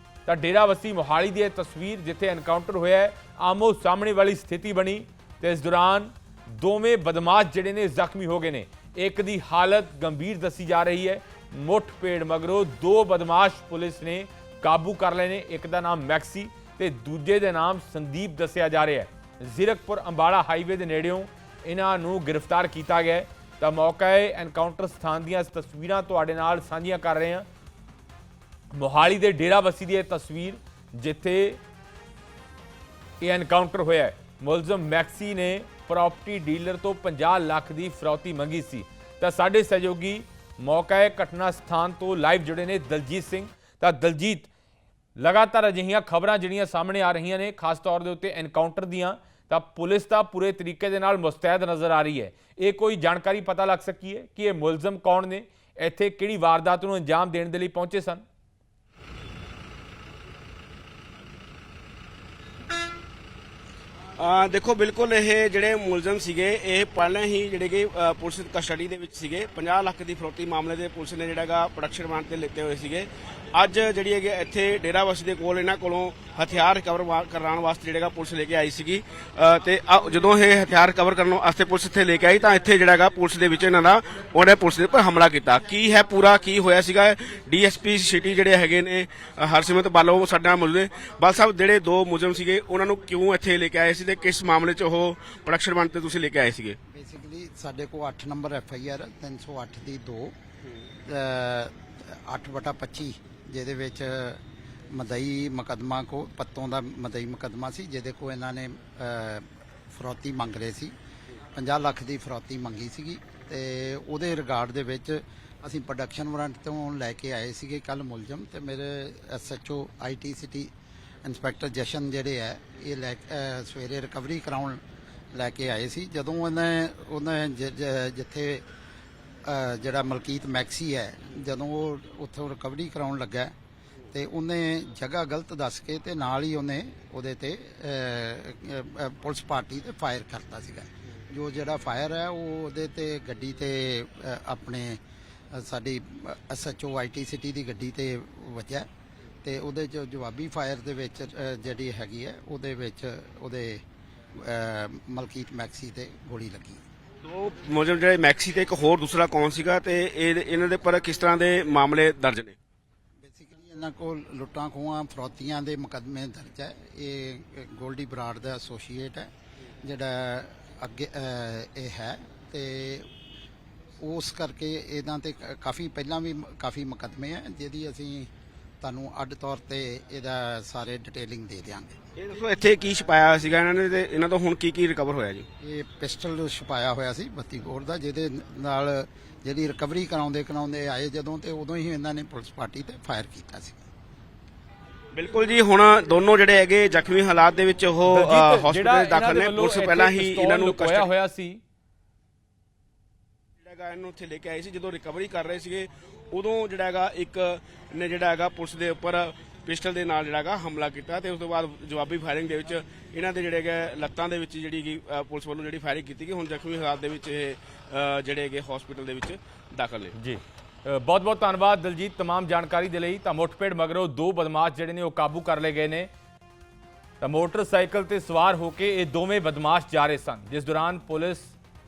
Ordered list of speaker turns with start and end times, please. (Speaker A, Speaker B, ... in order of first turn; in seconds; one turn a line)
Speaker A: 0.2-27.5
Speaker A: 28.7-31.6
Speaker A: 33.2-44.5
Speaker A: 45.2-58.2
Speaker B: 64.2-96.8
Speaker C: 96.9-100.3
Speaker C: 101.0-110.9
Speaker C: 111.5-120.7
Speaker C: 121.2-124.8
Speaker C: 125.3-128.6
Speaker C: 129.4-133.5
Speaker C: 134.1-148.9
Speaker C: 149.4-153.8
Speaker C: 154.3-156.8
Speaker B: 157.2-162.6
Speaker C: 163.2-169.3
Speaker C: 169.8-173.1
Speaker C: 174.0-178.3
Speaker C: 178.8-182.0
Speaker B: 182.2-185.4
Speaker C: 185.6-193.8
Speaker B: 195.1-201.1
Speaker A: 198.1-201.6
Speaker B: 203.6-220.1
Speaker A: 220.1-226.1
Speaker A: 227.2-231.6